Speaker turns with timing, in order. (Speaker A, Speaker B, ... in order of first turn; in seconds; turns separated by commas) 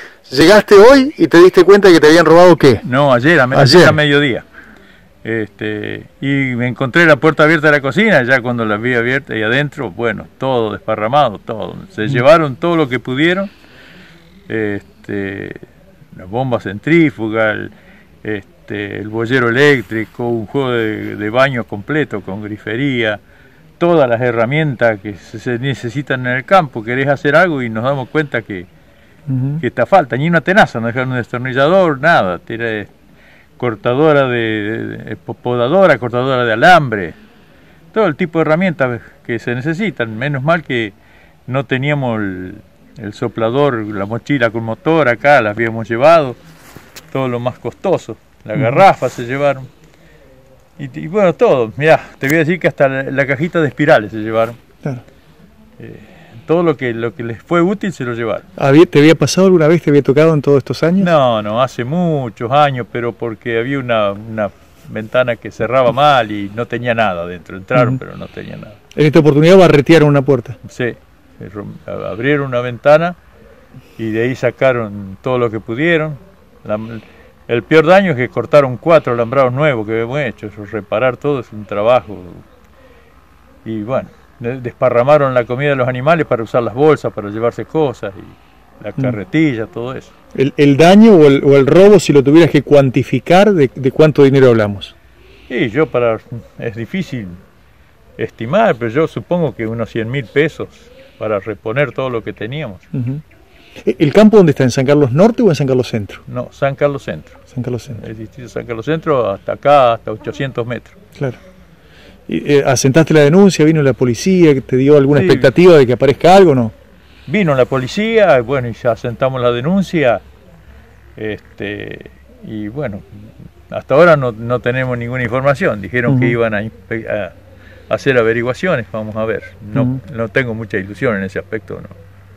Speaker A: 0.2-2.8, Speaker B: 2.8-4.5, Speaker A: 3.5-4.0, Speaker B: 5.2-13.5, Speaker B: 14.5-15.6, Speaker B: 16.1-17.7, Speaker B: 18.2-23.2, Speaker B: 23.8-28.7, Speaker A: 29.3-29.6, Speaker B: 29.6-32.9, Speaker B: 33.6-37.2, Speaker B: 37.9-41.0, Speaker B: 41.5-46.4, Speaker B: 47.1-49.7, Speaker B: 50.8-54.6, Speaker B: 55.8-58.5, Speaker A: 58.6-61.1, Speaker B: 61.0-68.8, Speaker A: 69.0-70.6, Speaker B: 70.6-73.2, Speaker B: 74.0-82.4, Speaker B: 83.7-90.1, Speaker A: 90.3-94.9, Speaker B: 95.5-97.4, Speaker B: 98.2-102.8, Speaker A: 102.9-103.2, Speaker A: 103.8-106.2, Speaker B: 106.3-107.4, Speaker A: 107.5-108.0, Speaker B: 107.9-111.0, Speaker A: 112.3-116.7, Speaker B: 115.1-115.5, Speaker B: 117.3-120.2, Speaker B: 121.2-123.0, Speaker B: 123.7-127.3, Speaker A: 126.1-126.4, Speaker B: 127.9-132.0